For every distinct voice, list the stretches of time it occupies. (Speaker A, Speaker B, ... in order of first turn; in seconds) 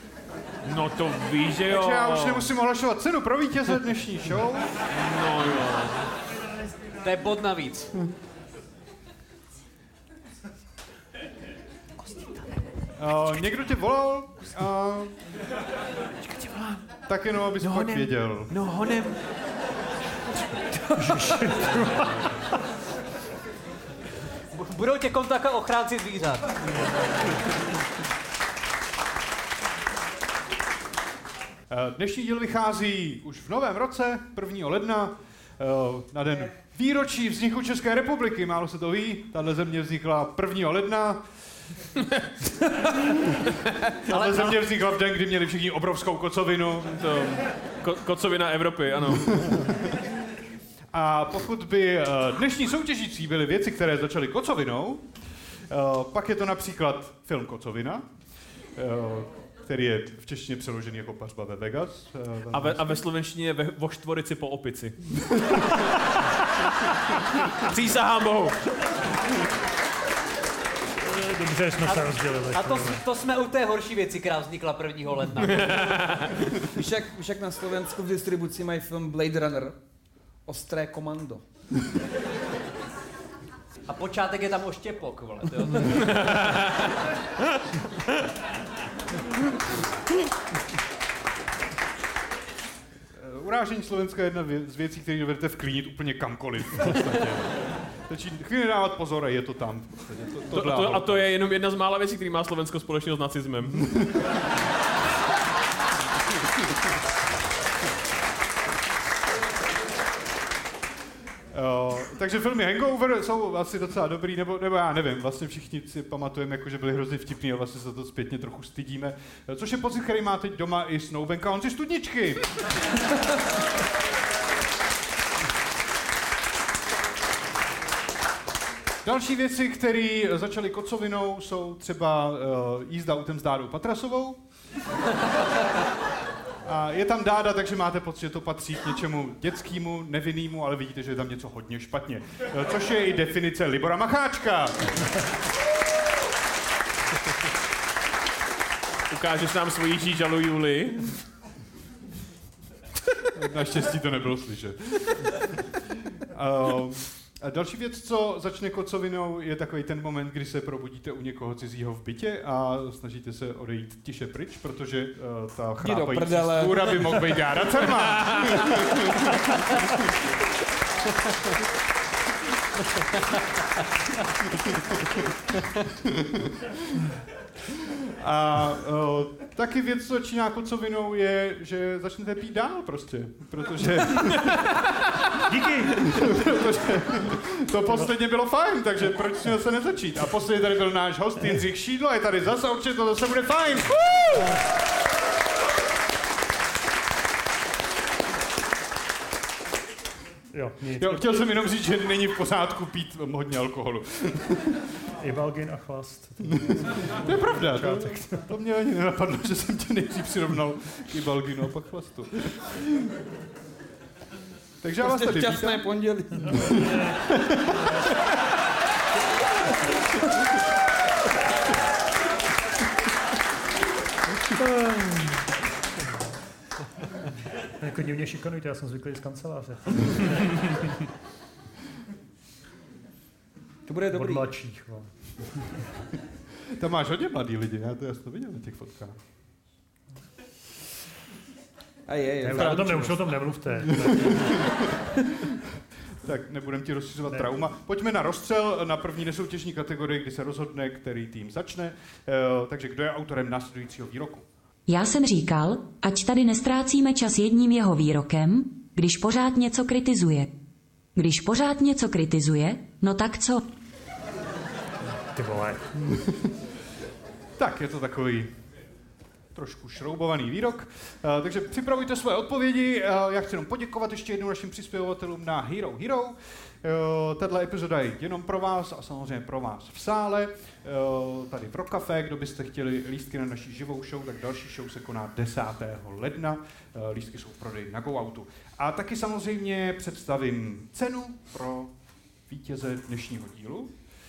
Speaker A: 0.6-2.5, 4.9-6.0, 16.2-16.8, 17.6-19.1, 46.9-49.6, 62.5-65.7, 67.4-68.5, 75.5-76.4, 86.0-86.8, 100.5-104.1, 149.1-151.1, 168.0-169.0
Speaker B: 1.6-4.7, 13.0-15.1, 17.1-18.5, 31.7-41.2, 44.0-47.0, 50.9-55.0, 55.7-58.0, 58.8-62.9, 93.2-97.5, 98.1-101.3, 111.5-122.4, 129.0-134.4, 136.6-145.1, 153.3-155.2, 156.1-169.8, 176.1-176.5, 177.8-185.3, 185.9-194.6, 201.0-204.8, 206.5-213.1, 214.8-215.9, 216.5-218.0, 236.7-239.2, 243.8-245.2, 246.2-254.4, 267.6-268.5, 269.5-291.9, 292.5-293.9
Speaker C: 7.0-7.9, 24.5-26.5, 44.1-44.6, 71.8-75.9, 83.9-86.1
Speaker D: 20.9-22.4, 71.0-73.0, 185.5-186.0, 200.5-201.5, 205.2-208.5, 227.8-230.8, 234.1-235.1, 242.4-244.6, 247.3-247.6, 265.3-266.2
Speaker E: 76.7-79.8, 80.5-81.4, 165.8-167.8, 215.0-216.9, 233.8-234.5, 242.1-243.4
Speaker F: 254.9-260.5, 261.1-263.6